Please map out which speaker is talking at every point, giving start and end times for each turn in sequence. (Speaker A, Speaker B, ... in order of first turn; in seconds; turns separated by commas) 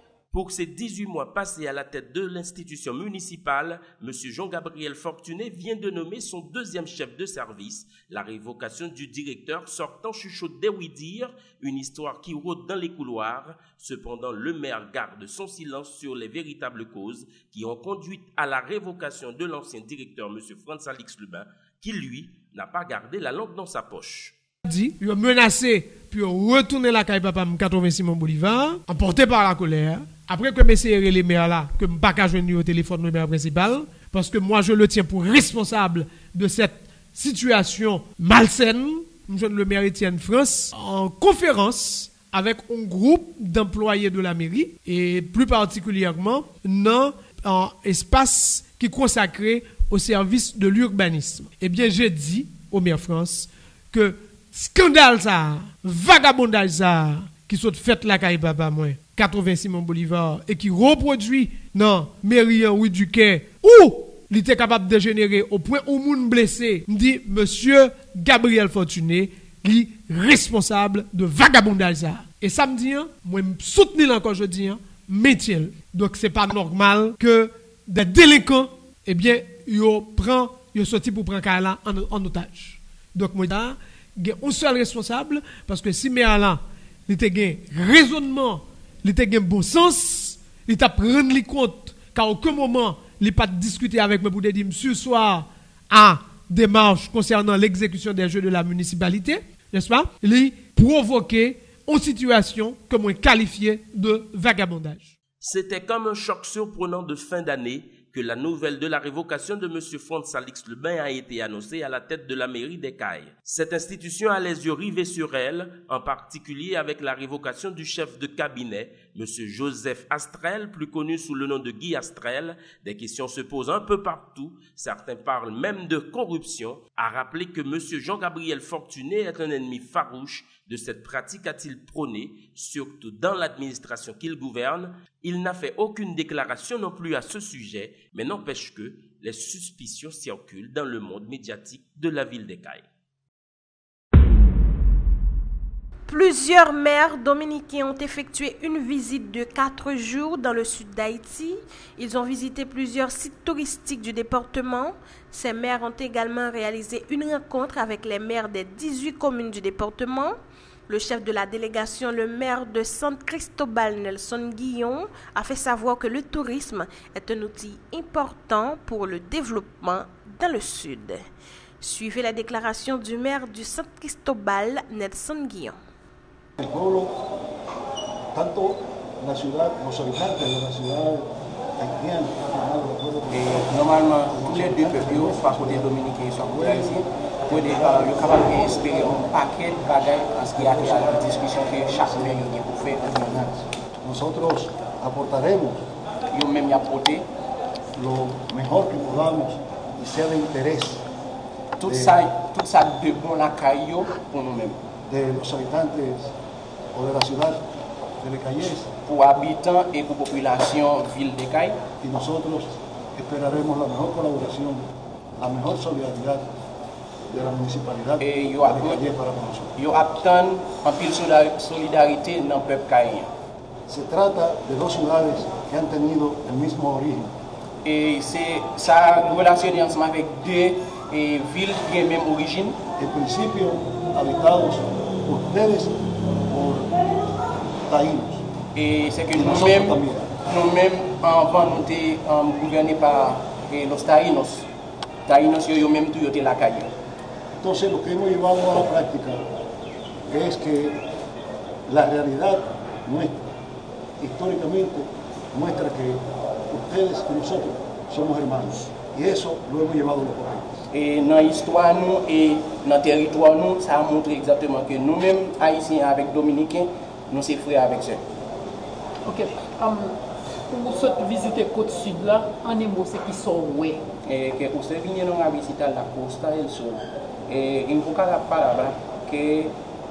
Speaker A: 0.3-24.4, Speaker B: 24.6-105.1, Speaker A: 105.4-142.9, Speaker C: 146.1-160.3, Speaker C: 160.9-171.2, Speaker C: 171.8-175.8, Speaker D: 176.6-177.1, Speaker D: 178.3-187.0, Speaker E: 183.3-193.5, Speaker D: 187.5-189.2, Speaker D: 190.4-195.8, Speaker E: 196.3-197.2, Speaker D: 198.0-201.0, Speaker E: 201.8-204.8, Speaker D: 201.8-202.2, Speaker D: 205.1-206.3, Speaker D: 206.9-207.6, Speaker D: 208.2-208.9, Speaker E: 209.1-211.8, Speaker D: 212.0-216.5, Speaker D: 217.3-219.7, Speaker E: 218.2-219.0, Speaker E: 219.8-223.3, Speaker D: 223.9-227.3, Speaker E: 227.8-232.8, Speaker D: 233.0-237.0, Speaker D: 237.8-238.4, Speaker E: 238.8-244.7, Speaker D: 239.3-240.3, Speaker E: 245.2-246.9, Speaker D: 247.6-249.5, Speaker D: 250.3-251.0, Speaker D: 251.9-253.4, Speaker D: 254.2-260.8, Speaker E: 260.9-268.2, Speaker F: 269.2-270.2, Speaker F: 270.7-274.0, Speaker E: 274.2-279.7